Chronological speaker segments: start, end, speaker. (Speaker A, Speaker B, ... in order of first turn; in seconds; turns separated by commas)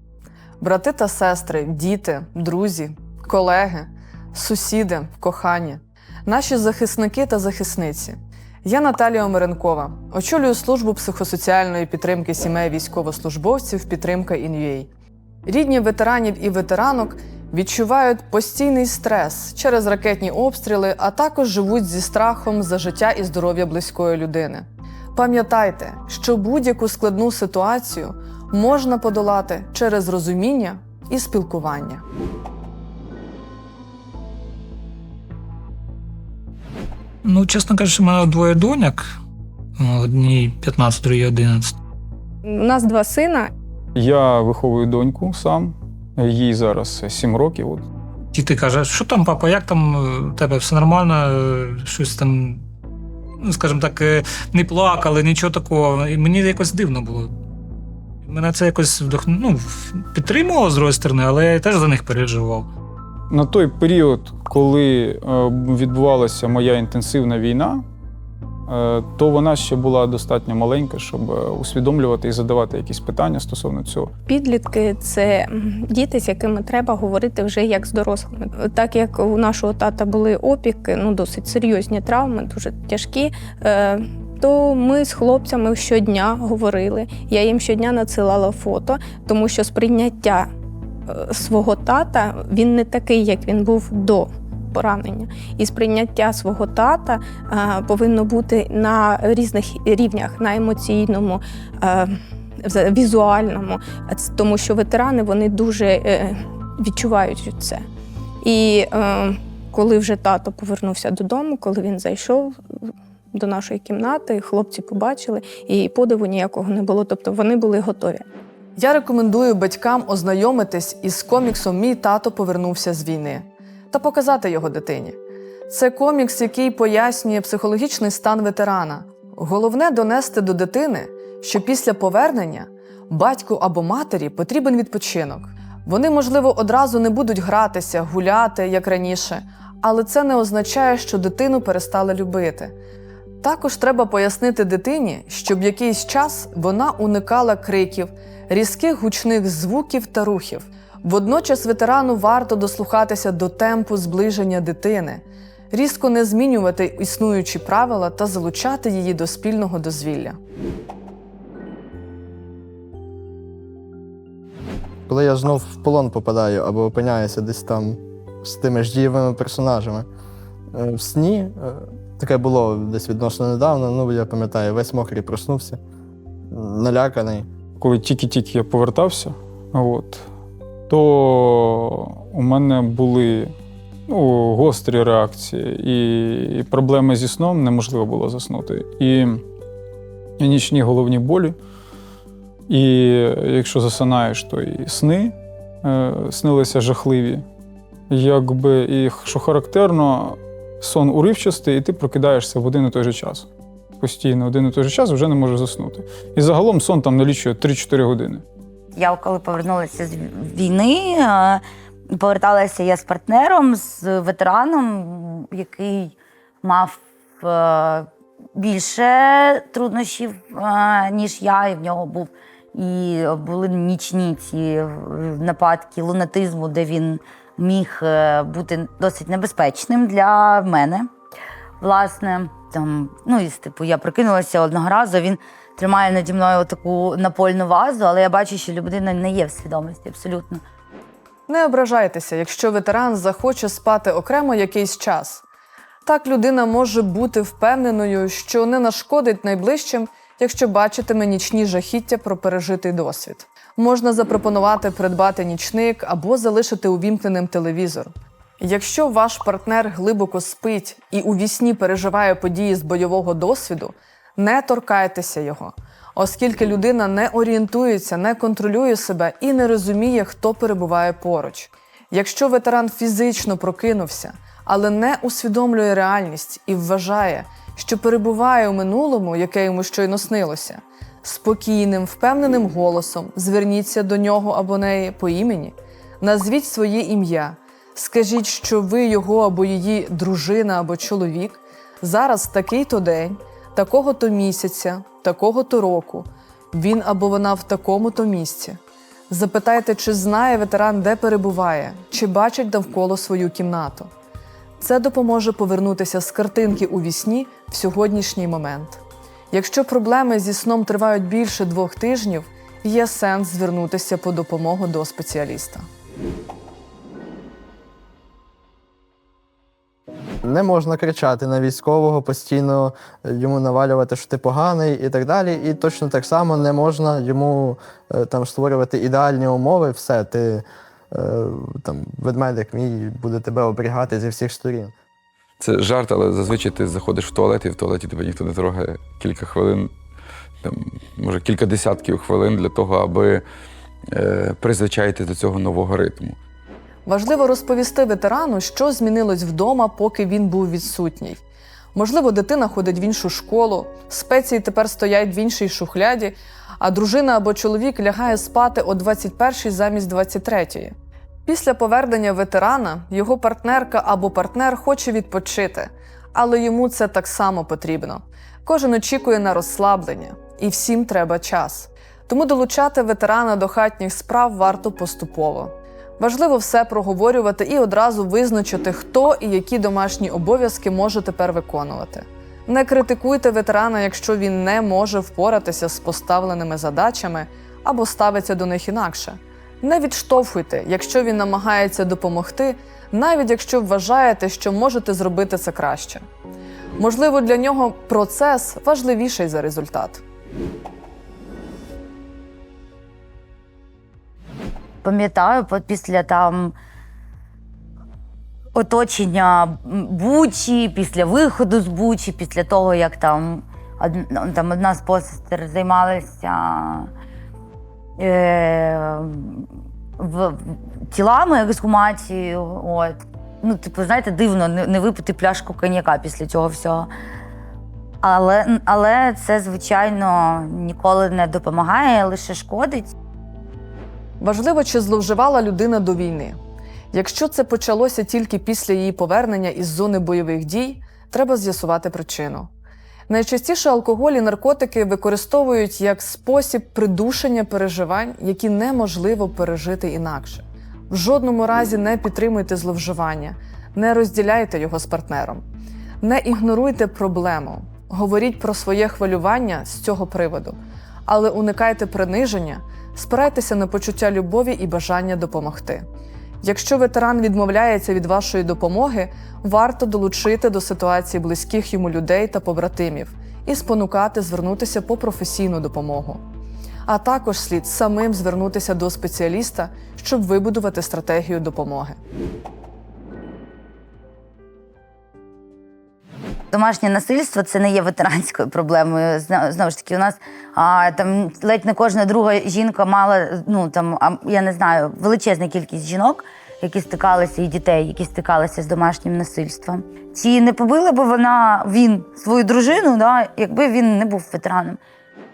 Speaker A: 0.6-14.9, Speaker A: 15.4-32.0, Speaker B: 37.2-39.0, Speaker B: 39.8-41.7, Speaker C: 42.5-43.5, Speaker D: 44.0-47.9, Speaker B: 48.3-52.6, Speaker B: 53.5-57.3, Speaker B: 58.2-62.7, Speaker D: 63.3-67.8, Speaker D: 68.7-74.1, Speaker C: 74.3-90.5, Speaker C: 91.1-107.8, Speaker C: 108.4-118.2, Speaker A: 118.8-125.2, Speaker A: 125.7-142.7, Speaker A: 143.4-160.4, Speaker E: 165.1-170.1, Speaker E: 170.7-175.8, Speaker E: 176.5-177.5, Speaker D: 177.8-180.2, Speaker D: 180.9-183.5, Speaker D: 184.1-189.4, Speaker D: 190.4-191.5, Speaker D: 192.7-197.4, Speaker D: 198.1-203.5, Speaker D: 204.0-208.4, Speaker F: 208.9-231.1, Speaker F: 231.8-240.6, Speaker A: 241.5-245.4, Speaker A: 246.1-298.8, Speaker A: 299.3-304.1, Speaker A: 304.8-315.8, Speaker E: 320.4-334.9, Speaker G: 335.6-339.9, Speaker G: 340.6-343.4, Speaker G: 344.1-346.4, Speaker A: 347.1-351.4, Speaker A: 351.9-360.9, Speaker A: 361.4-396.2, Speaker A: 397.0-400.2, Speaker F: 405.0-406.7, Speaker F: 408.7-417.1, Speaker F: 418.2-427.1, Speaker F: 428.2-433.1, Speaker A: 434.4-436.6, Speaker A: 437.1-442.7, Speaker A: 443.3-455.6, Speaker A: 456.2-466.0, Speaker A: 466.6-476.4, Speaker A: 477.1-482.2, Speaker F: 486.7-505.0